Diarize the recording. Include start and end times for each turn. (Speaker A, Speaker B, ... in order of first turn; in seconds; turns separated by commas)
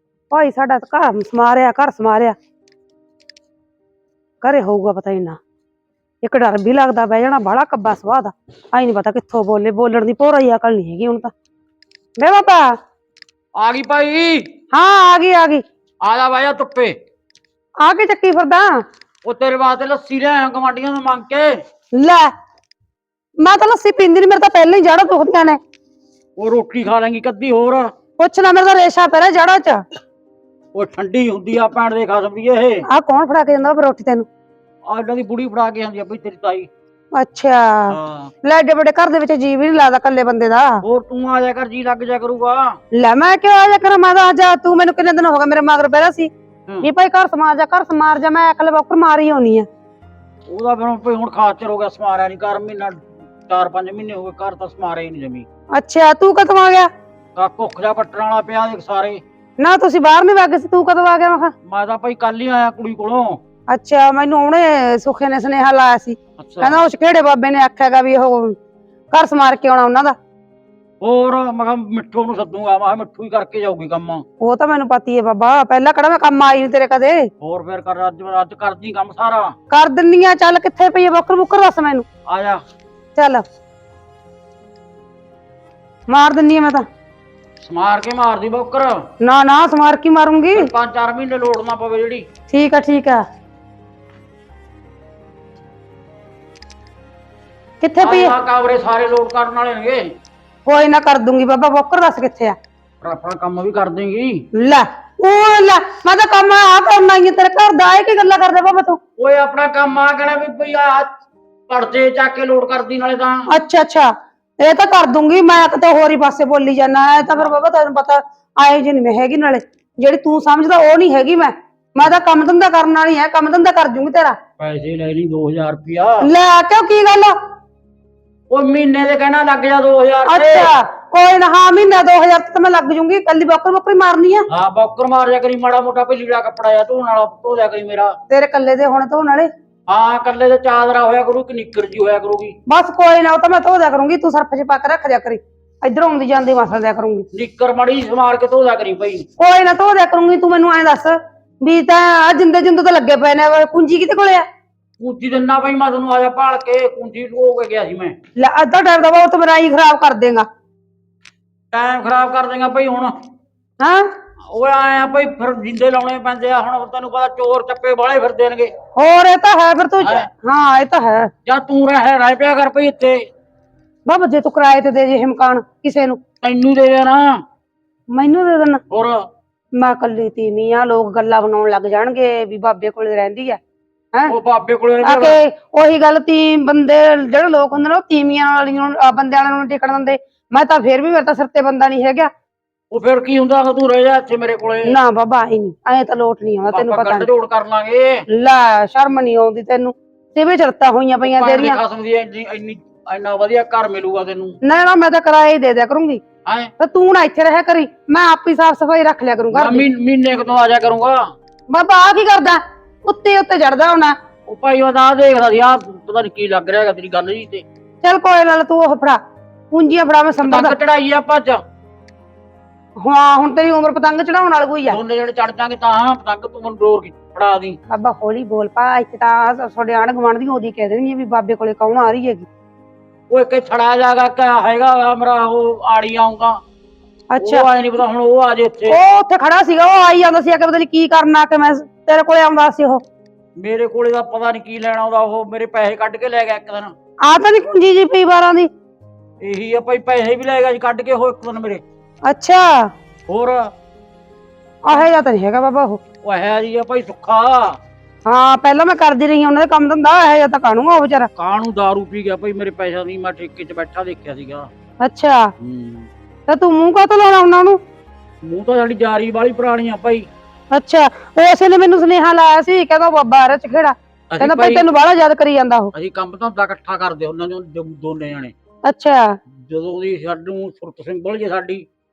Speaker A: 0.3-2.4, Speaker A: 4.4-5.4, Speaker A: 6.2-11.3, Speaker A: 12.2-12.7, Speaker B: 13.6-14.5, Speaker A: 14.7-15.6, Speaker B: 16.0-17.0, Speaker A: 17.8-18.8, Speaker B: 19.2-21.5, Speaker A: 21.9-22.3, Speaker A: 23.4-25.6, Speaker B: 26.4-27.9, Speaker A: 28.2-29.9, Speaker B: 30.7-32.8, Speaker A: 32.9-34.3, Speaker B: 34.9-36.7, Speaker A: 37.1-40.8, Speaker B: 37.9-38.3, Speaker B: 40.8-42.8, Speaker A: 42.9-46.3, Speaker A: 46.8-49.7, Speaker B: 50.5-55.5, Speaker A: 55.7-56.9, Speaker B: 57.4-59.2, Speaker A: 59.6-61.5, Speaker B: 61.7-63.4, Speaker A: 63.7-68.6, Speaker B: 66.4-66.8, Speaker A: 69.1-70.2, Speaker B: 71.0-74.2, Speaker A: 74.4-77.3, Speaker B: 77.4-79.5, Speaker A: 79.7-82.1, Speaker B: 82.3-82.6, Speaker A: 83.2-83.4, Speaker A: 86.1-86.8, Speaker B: 87.6-89.1, Speaker A: 89.2-90.7, Speaker B: 90.5-92.3, Speaker A: 92.5-93.2, Speaker A: 97.8-98.4, Speaker B: 98.0-100.1, Speaker A: 100.7-102.5, Speaker B: 103.0-104.5, Speaker A: 104.5-109.0, Speaker B: 109.2-111.1, Speaker B: 111.7-113.5, Speaker A: 113.5-124.4, Speaker B: 124.6-126.3, Speaker A: 126.2-127.3, Speaker B: 128.5-130.7, Speaker A: 130.3-134.5, Speaker B: 134.5-138.2, Speaker A: 138.3-139.5, Speaker B: 139.9-142.6, Speaker A: 142.7-147.3, Speaker B: 147.3-149.3, Speaker A: 149.4-154.4, Speaker B: 155.0-158.2, Speaker A: 158.4-160.5, Speaker B: 161.7-163.2, Speaker A: 163.8-164.1, Speaker B: 164.5-168.7, Speaker A: 168.9-171.3, Speaker B: 170.0-170.3, Speaker B: 171.5-173.3, Speaker A: 174.1-176.2, Speaker B: 176.4-177.4, Speaker A: 178.1-178.8, Speaker B: 178.9-179.3, Speaker A: 179.8-183.6, Speaker B: 184.3-185.4, Speaker A: 185.0-192.3, Speaker B: 192.9-194.9, Speaker A: 194.9-197.3, Speaker B: 196.7-198.2, Speaker A: 198.3-201.8, Speaker B: 201.2-204.6, Speaker A: 204.6-206.2, Speaker B: 206.5-206.7, Speaker A: 206.8-209.8, Speaker B: 209.5-211.2, Speaker A: 211.7-214.2, Speaker B: 214.5-217.6, Speaker A: 218.0-219.2, Speaker A: 219.7-220.8, Speaker B: 220.4-221.6, Speaker A: 223.0-225.0, Speaker B: 224.9-227.8, Speaker A: 227.9-232.5, Speaker B: 233.3-236.6, Speaker A: 237.3-237.7, Speaker B: 237.4-239.0, Speaker A: 238.9-243.0, Speaker B: 243.6-246.9, Speaker A: 247.2-248.7, Speaker B: 249.4-251.8, Speaker A: 252.2-252.9, Speaker B: 253.3-253.7, Speaker A: 254.8-256.0, Speaker B: 256.2-257.8, Speaker A: 258.3-261.3, Speaker B: 261.4-264.7, Speaker A: 265.0-265.5, Speaker B: 265.6-266.1, Speaker A: 266.5-267.8, Speaker B: 268.4-270.3, Speaker A: 270.7-275.9, Speaker B: 274.3-274.9, Speaker B: 275.9-278.5, Speaker A: 278.9-279.4, Speaker B: 279.5-281.9